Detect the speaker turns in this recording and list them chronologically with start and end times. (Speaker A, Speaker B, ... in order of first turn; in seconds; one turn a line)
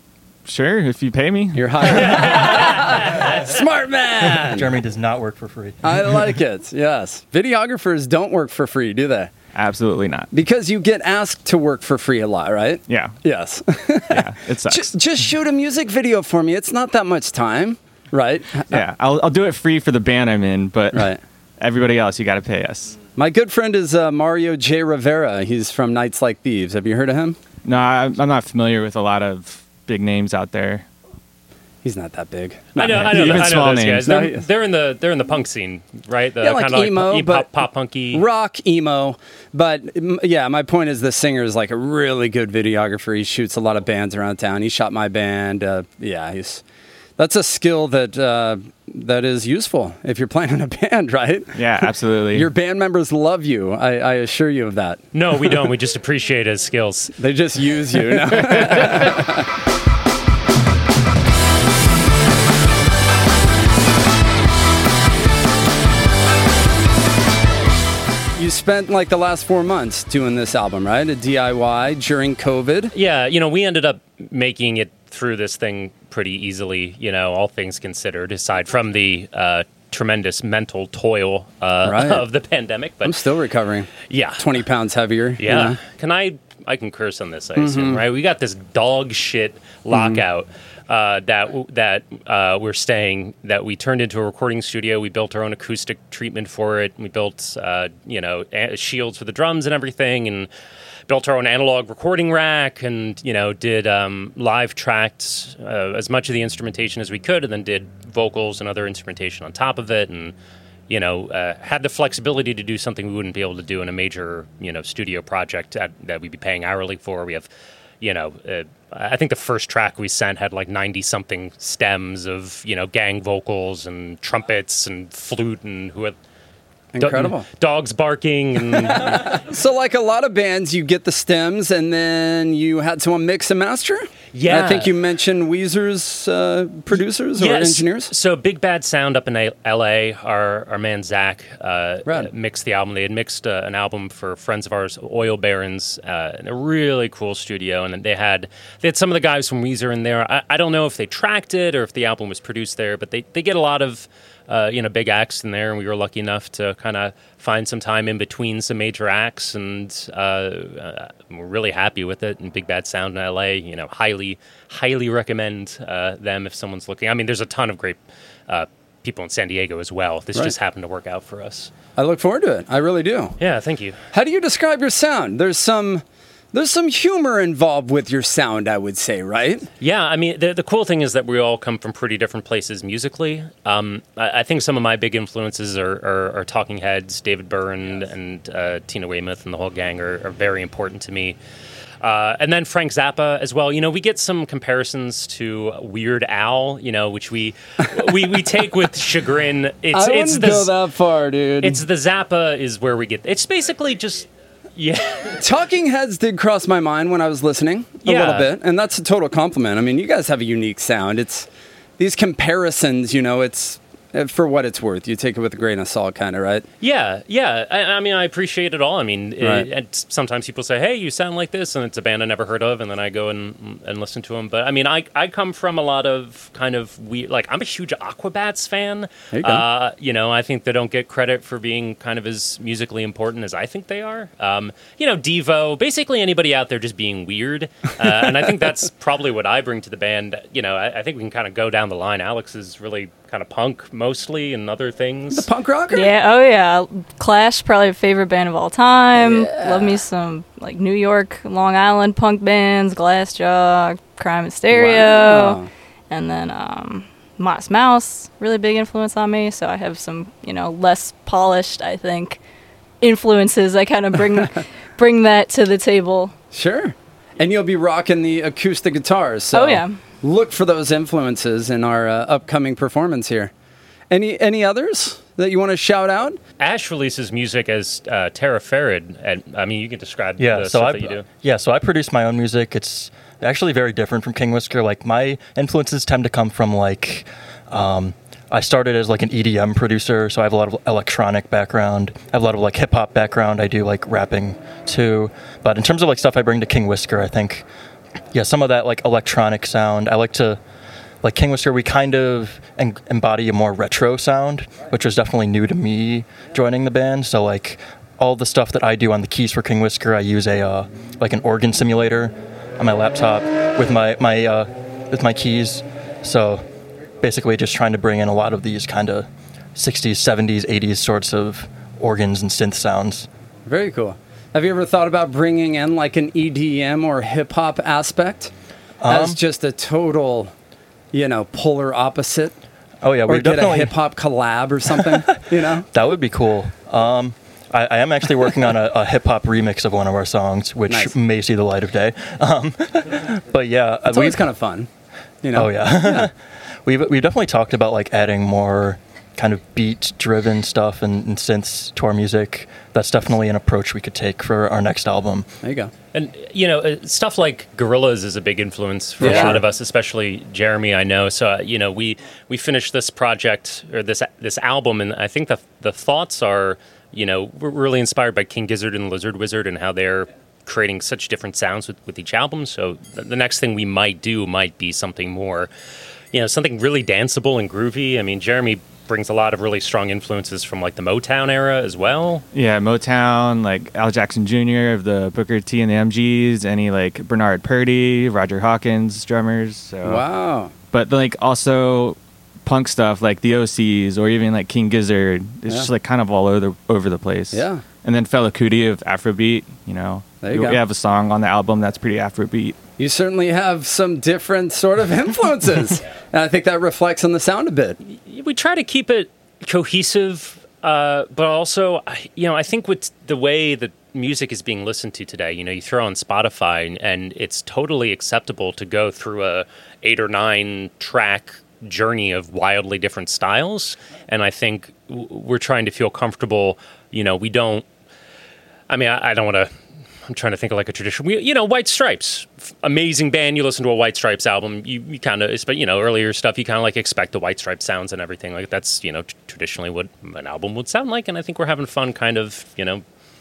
Speaker A: 0.5-2.3
Speaker B: 1.5-4.7
Speaker C: 2.0-3.6
Speaker D: 4.2-6.4
Speaker B: 5.8-9.3
Speaker A: 9.6-10.3
Speaker B: 10.3-18.8
Speaker A: 12.9-13.2
Speaker A: 14.1-14.9
Speaker A: 18.7-23.0
Speaker B: 20.9-21.2
Speaker B: 23.2-27.4
Speaker A: 27.6-30.9
Speaker B: 31.8-34.4
Speaker C: 32.8-38.2
Speaker A: 32.8-34.1
Speaker B: 36.4-37.5
Speaker B: 38.1-46.6
Speaker B: 47.2-55.0
Speaker A: 51.5-52.5
Speaker C: 55.1-57.1
Speaker B: 57.2-59.5
Speaker C: 58.3-59.2
Speaker B: 68.4-72.9
Speaker C: 72.9-83.2
Speaker B: 81.8-82.2
Speaker B: 83.0-85.8
Speaker C: 84.1-84.5
Speaker C: 85.4-100.5
Speaker B: 87.6-88.0
Speaker B: 89.9-90.2
Speaker C: 101.1-110.3
Speaker C: 110.9-117.5
Speaker C: 118.0-126.2
Speaker B: 126.9-127.5
Speaker C: 127.0-129.4
Speaker B: 128.9-138.1
Speaker C: 134.3-134.9
Speaker C: 137.4-171.7
Speaker B: 172.0-173.4
Speaker C: 173.4-174.0
Speaker B: 174.1-179.7
Speaker C: 179.8-191.4
Speaker C: 192.0-200.7
Speaker B: 199.9-201.8
Speaker C: 201.6-205.4
Speaker B: 205.4-211.5
Speaker C: 208.1-208.5
Speaker B: 212.0-216.7
Speaker C: 216.8-245.5
Speaker B: 219.4-219.7
Speaker B: 229.3-229.6
Speaker B: 245.3-246.1
Speaker E: 245.9-262.4
Speaker B: 249.2-250.0
Speaker B: 254.7-255.7
Speaker E: 263.0-266.3
Speaker B: 266.5-273.5
Speaker E: 269.5-270.0
Speaker B: 274.1-276.4
Speaker C: 276.6-281.3
Speaker D: 280.4-297.7
Speaker D: 298.3-300.6
Speaker D: 301.2-316.6
Speaker D: 317.2-323.3
Speaker B: 323.7-328.5
Speaker D: 329.0-329.4
Speaker B: 329.1-330.5
Speaker B: 331.1-332.5
Speaker D: 333.0-333.9
Speaker B: 333.3-335.9
Speaker D: 335.9-344.4
Speaker B: 340.9-341.1
Speaker B: 344.1-344.9
Speaker B: 345.4-346.3
Speaker D: 345.5-346.3
Speaker D: 346.9-355.5
Speaker B: 355.6-355.9
Speaker C: 356.1-375.7
Speaker B: 359.2-359.6
Speaker D: 359.2-359.6
Speaker C: 376.3-382.4
Speaker A: 382.5-390.2
Speaker B: 390.0-390.7
Speaker A: 390.9-402.8
Speaker B: 397.5-397.8
Speaker B: 400.4-400.8
Speaker B: 403.0-408.0
Speaker C: 408.1-427.9
Speaker C: 428.9-429.7
Speaker C: 430.3-443.0